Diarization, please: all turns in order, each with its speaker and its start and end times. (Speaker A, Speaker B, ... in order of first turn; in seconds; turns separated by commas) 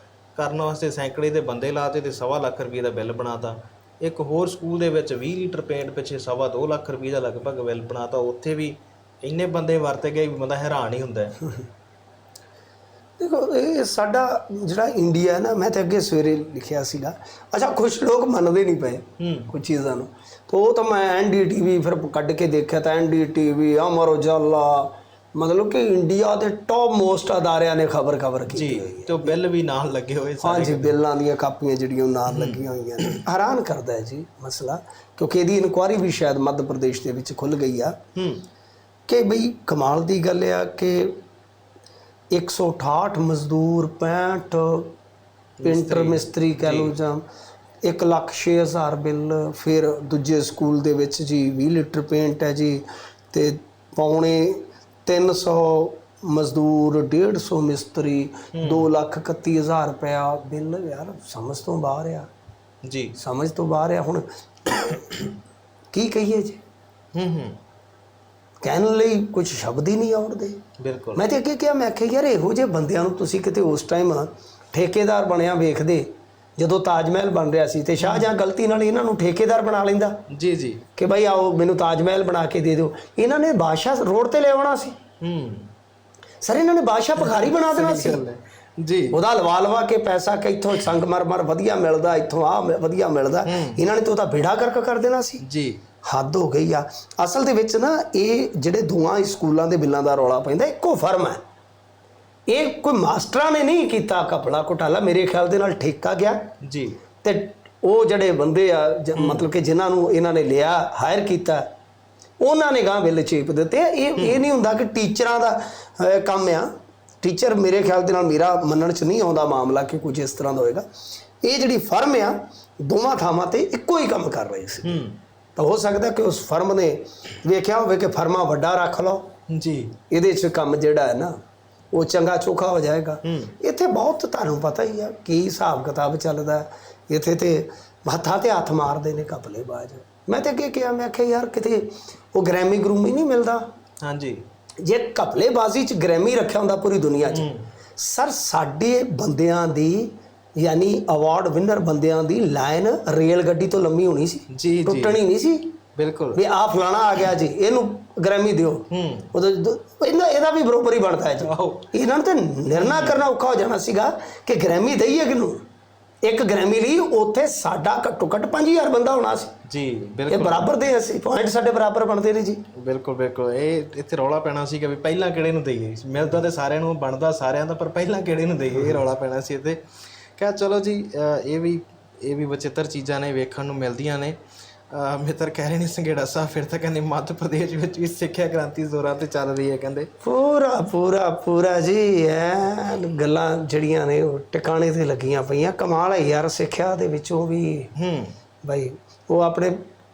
Speaker A: 0.4-11.4, Speaker B: 13.2-29.4, Speaker A: 19.2-19.5, Speaker A: 28.5-31.0, Speaker B: 30.4-38.0, Speaker A: 32.3-33.2, Speaker A: 38.2-38.5, Speaker B: 39.1-41.2, Speaker B: 42.3-44.9, Speaker A: 45.6-47.0, Speaker B: 45.6-47.2, Speaker B: 47.8-62.3, Speaker A: 58.5-58.9, Speaker A: 62.8-63.1, Speaker B: 63.2-65.3, Speaker B: 65.9-66.6, Speaker A: 67.2-67.6, Speaker B: 68.6-70.6, Speaker A: 70.8-71.2, Speaker B: 71.2-80.2, Speaker A: 78.0-78.3, Speaker A: 80.3-80.8, Speaker B: 81.0-85.0, Speaker A: 85.2-85.7, Speaker B: 86.4-88.2, Speaker A: 87.2-89.2, Speaker B: 89.1-95.4, Speaker A: 93.5-93.8, Speaker A: 95.4-95.8, Speaker B: 96.0-101.4, Speaker B: 102.5-106.5, Speaker A: 106.6-107.0, Speaker B: 107.2-111.7, Speaker A: 109.2-109.5, Speaker B: 112.4-116.7, Speaker A: 114.2-114.4, Speaker B: 117.2-120.8, Speaker B: 121.4-125.0, Speaker A: 124.8-125.2, Speaker B: 125.6-129.3, Speaker A: 129.5-129.9, Speaker B: 130.1-131.4, Speaker B: 131.9-143.7, Speaker A: 133.2-133.5, Speaker A: 144.0-144.4, Speaker B: 144.8-155.7, Speaker A: 147.3-147.7, Speaker A: 154.5-155.2, Speaker A: 156.0-156.4, Speaker B: 156.3-165.6, Speaker A: 158.9-159.3, Speaker A: 161.4-161.9, Speaker A: 162.7-163.2, Speaker B: 166.2-169.5, Speaker A: 169.7-170.7, Speaker B: 170.3-172.6, Speaker A: 172.8-179.8, Speaker A: 180.4-184.4, Speaker A: 184.9-190.1, Speaker B: 190.2-197.9, Speaker A: 197.9-198.3, Speaker B: 198.6-199.8